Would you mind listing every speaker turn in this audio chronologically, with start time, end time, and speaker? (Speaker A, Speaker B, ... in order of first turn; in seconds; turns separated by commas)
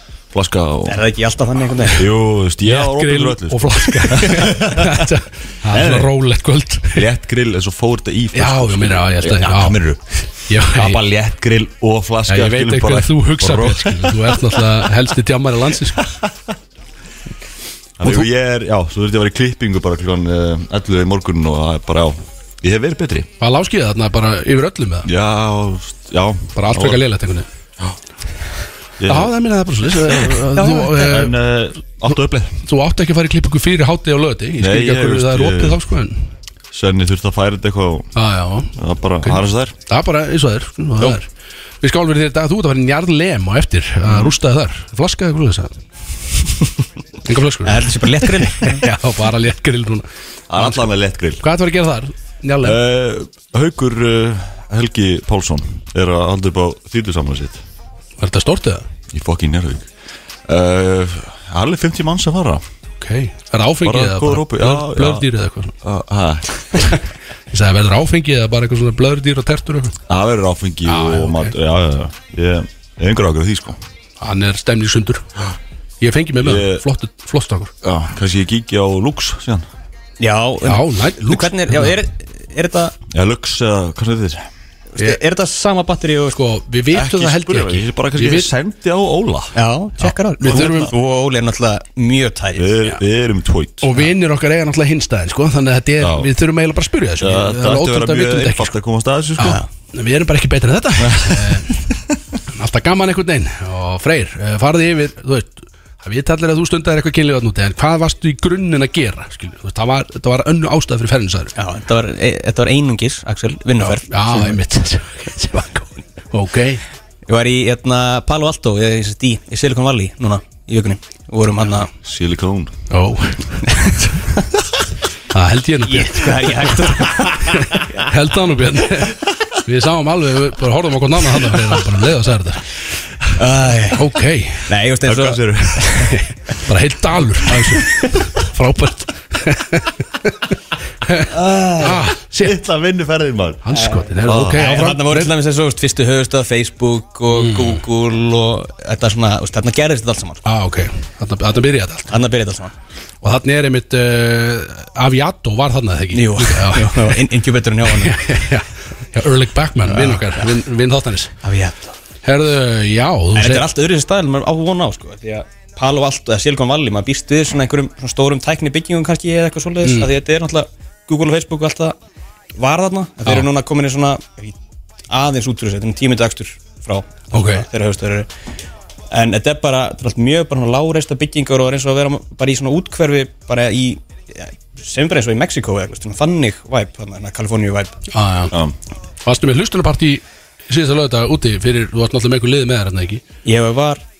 Speaker A: 0.3-1.0, Speaker B: 0.9-2.0, Speaker A: 1.9-5.1, Speaker C: 2.6-7.0, Speaker A: 5.7-6.1, Speaker A: 6.9-14.7, Speaker C: 8.3-9.8, Speaker C: 10.5-11.1, Speaker C: 12.3-16.0, Speaker A: 16.0-16.3, Speaker A: 18.0-23.3, Speaker C: 23.4-25.1, Speaker A: 25.0-27.0, Speaker C: 26.6-27.5, Speaker A: 29.0-29.3, Speaker C: 29.1-31.3, Speaker A: 29.9-32.6, Speaker B: 30.6-31.0, Speaker C: 32.6-36.2, Speaker A: 34.6-35.8, Speaker A: 36.7-38.1, Speaker C: 38.1-41.3, Speaker A: 38.8-39.7, Speaker C: 41.8-45.7, Speaker A: 44.0-44.3, Speaker C: 47.2-50.1, Speaker B: 47.6-48.9, Speaker A: 50.5-51.4, Speaker C: 50.6-50.8, Speaker C: 51.4-52.8, Speaker A: 52.6-57.6, Speaker C: 58.2-58.9, Speaker A: 59.1-59.9, Speaker A: 60.5-62.6, Speaker C: 63.0-65.7, Speaker A: 63.8-65.3, Speaker A: 65.8-67.0, Speaker C: 67.5-69.9, Speaker A: 70.1-73.8, Speaker C: 70.9-71.5, Speaker C: 74.2-75.2, Speaker C: 76.0-77.7, Speaker A: 76.4-76.8, Speaker A: 77.8-79.7, Speaker B: 80.2-83.0, Speaker C: 80.6-82.0, Speaker A: 83.1-84.4, Speaker B: 84.9-86.3, Speaker C: 86.3-88.5, Speaker A: 86.9-89.5, Speaker B: 89.5-92.7, Speaker C: 90.0-90.9, Speaker A: 90.4-90.9, Speaker A: 92.5-93.9, Speaker C: 93.8-98.7, Speaker A: 96.0-96.3, Speaker A: 97.2-99.6, Speaker C: 99.4-101.8, Speaker B: 99.4-99.7, Speaker A: 101.0-102.0, Speaker C: 102.5-111.5, Speaker B: 111.6-114.5, Speaker C: 113.8-116.8, Speaker B: 117.3-121.9, Speaker A: 122.0-122.7, Speaker C: 122.9-123.9, Speaker B: 123.7-124.4, Speaker C: 125.3-132.6, Speaker B: 125.9-128.0, Speaker B: 133.4-134.0, Speaker C: 133.9-134.7, Speaker B: 134.7-136.1, Speaker A: 135.1-136.1, Speaker C: 136.1-140.3, Speaker C: 141.0-142.6, Speaker A: 141.3-143.7, Speaker C: 143.6-145.3, Speaker B: 143.7-150.4, Speaker A: 144.2-144.6, Speaker C: 147.3-147.8, Speaker C: 150.4-152.1, Speaker B: 152.1-152.7, Speaker C: 153.2-157.2, Speaker B: 156.1-158.2, Speaker C: 157.9-161.3, Speaker B: 159.9-160.4, Speaker B: 161.4-161.9, Speaker C: 162.2-163.7, Speaker B: 163.3-171.9, Speaker C: 169.8-170.1, Speaker B: 172.6-174.6, Speaker B: 175.1-178.3, Speaker C: 177.3-177.6, Speaker B: 179.1-187.9, Speaker C: 188.1-188.5, Speaker C: 189.2-193.2, Speaker B: 193.4-194.0